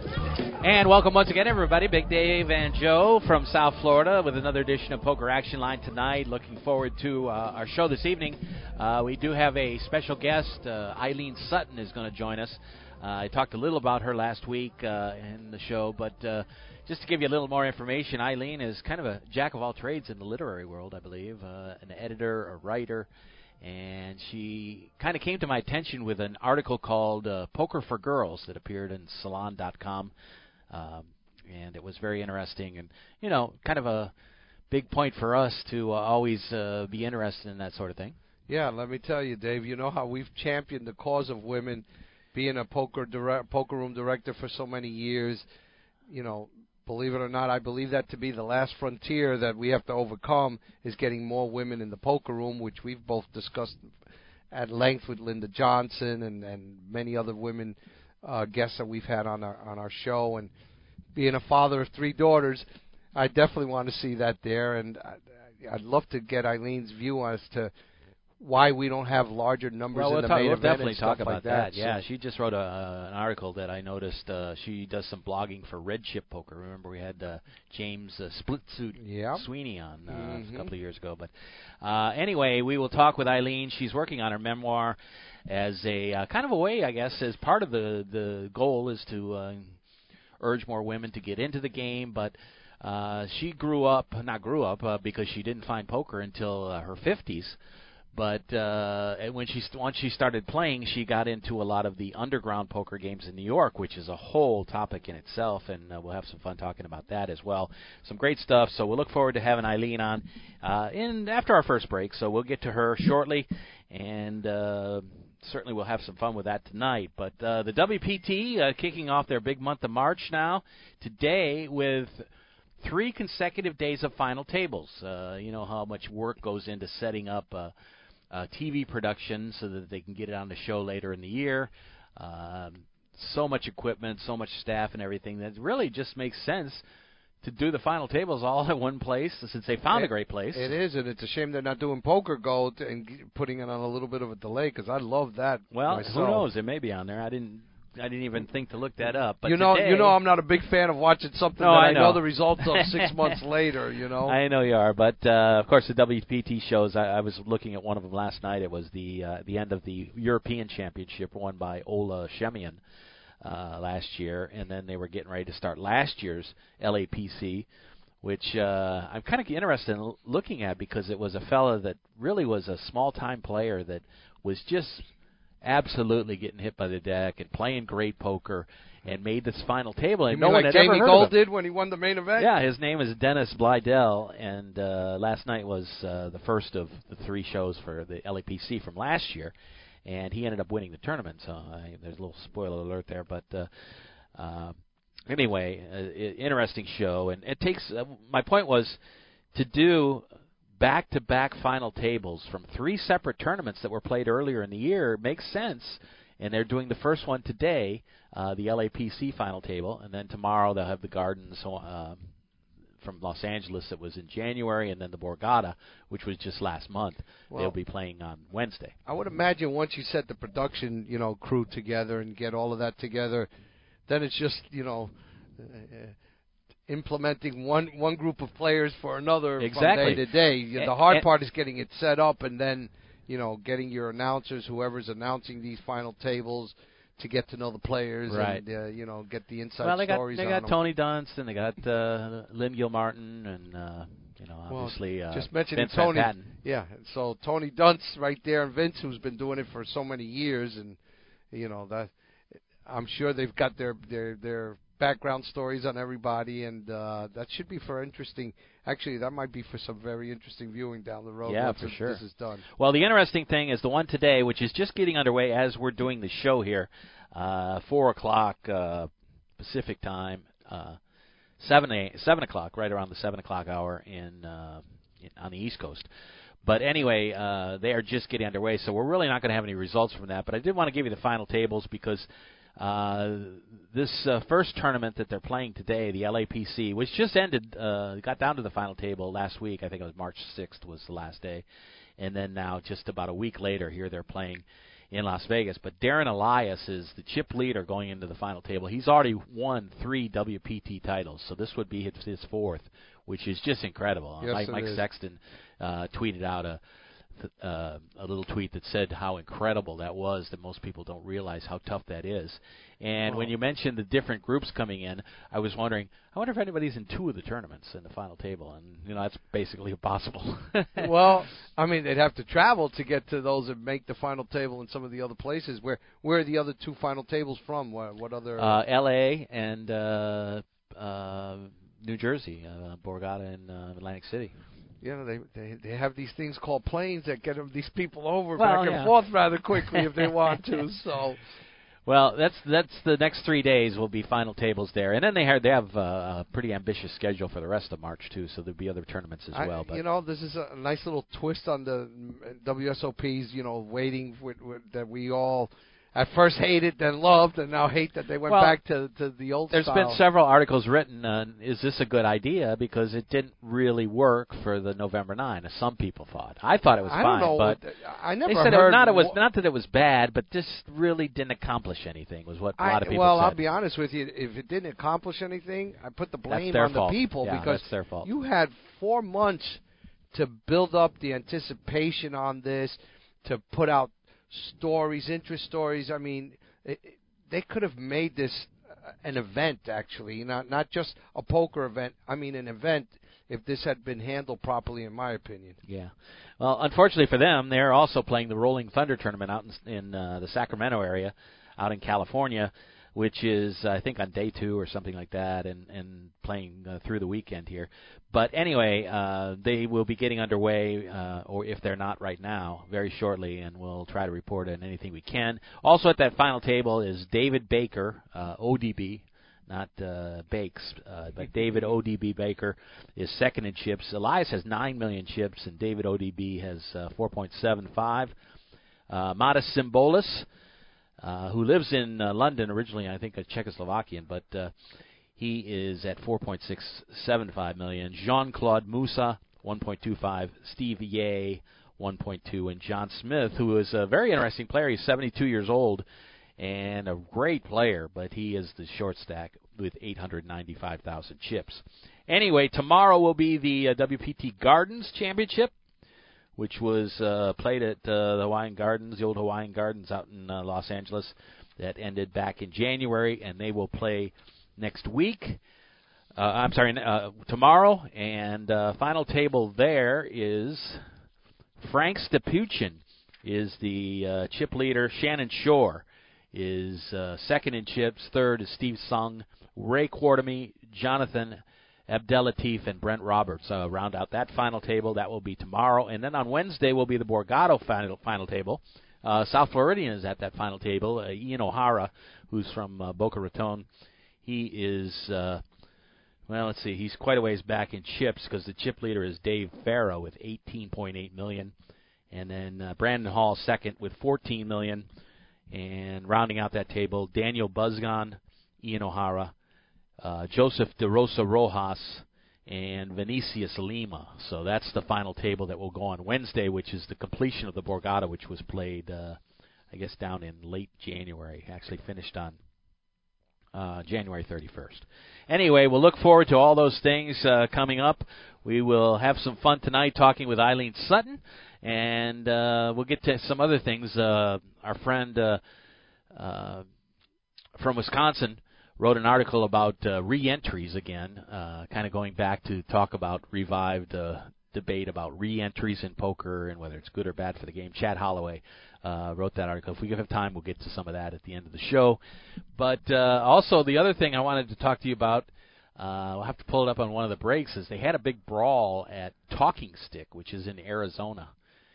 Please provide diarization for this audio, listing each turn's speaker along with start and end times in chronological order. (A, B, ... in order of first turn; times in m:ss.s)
0:00.6-0:23.1 A
0:23.6-0:30.1 A
0:30.7-0:34.1 A
0:34.7-0:38.1 A
0:38.5-0:45.4 B
0:46.1-0:53.8 B
0:54.5-1:00.5 B
1:01.2-1:02.6 B
1:03.1-1:07.7 B
1:08.4-1:12.0 B
1:09.9-1:21.3 A
1:19.0-1:19.4 B
1:20.1-1:20.7 B
1:21.8-1:25.0 A
1:25.5-1:29.8 A
1:30.4-1:37.6 A
1:38.1-2:02.2 A
2:02.8-2:07.7 A
2:08.3-2:16.8 A
2:17.4-2:20.7 A
2:19.9-2:26.5 B
2:25.7-2:30.2 A
2:29.4-2:34.4 B
2:31.6-2:33.4 A
2:34.2-2:42.8 A
2:43.4-2:47.7 A
2:48.2-2:55.0 A
2:55.6-3:01.3 A
3:00.3-3:02.5 B
3:02.4-3:09.5 A
3:10.0-3:13.7 A
3:14.4-3:14.8 A
3:15.3-3:19.0 A
3:19.5-3:20.2 A
3:20.8-3:32.2 A
3:33.0-3:38.9 A
3:39.1-3:43.5 B
3:44.1-3:46.1 B
3:46.9-4:00.7 B
3:49.6-3:50.2 A
3:50.8-3:51.2 A
3:58.3-3:58.6 A
3:59.8-4:06.5 A
4:04.7-4:11.0 B
4:11.5-4:12.1 B
4:12.8-4:22.6 B
4:21.4-4:22.2 A
4:22.8-4:31.0 A
4:31.6-4:36.1 A
4:36.6-4:42.3 A
4:42.8-4:51.6 A
4:52.2-5:06.8 A
5:04.4-5:05.0 B
5:07.4-5:21.1 A
5:21.0-5:28.8 B
5:28.6-5:34.6 A
5:35.0-5:41.4 B
5:38.6-5:39.1 A
5:39.8-5:40.3 A
5:42.0-5:50.0 A
5:49.5-6:00.2 B
5:58.5-5:58.8 A
5:59.7-6:07.8 A
6:07.1-6:09.4 B
6:08.5-6:13.6 A
6:12.8-6:19.8 B
6:16.5-6:18.3 A
6:20.3-6:28.7 B
6:29.2-6:35.8 B
6:35.9-7:08.3 A
7:09.1-7:10.4 A
7:11.2-7:14.7 A
7:15.4-7:26.0 A
7:26.6-7:35.7 A
7:36.6-7:45.6 A
7:46.4-7:51.0 A
7:51.8-8:13.8 A
8:14.4-8:15.6 A
8:16.5-8:21.7 A
8:22.3-8:25.0 A
8:25.7-8:29.5 A
8:30.2-8:39.4 A
8:39.9-8:42.6 A
8:43.7-8:55.6 A
8:56.3-8:56.8 A
8:57.8-9:12.2 A
9:12.8-9:15.5 A
9:16.0-9:21.5 A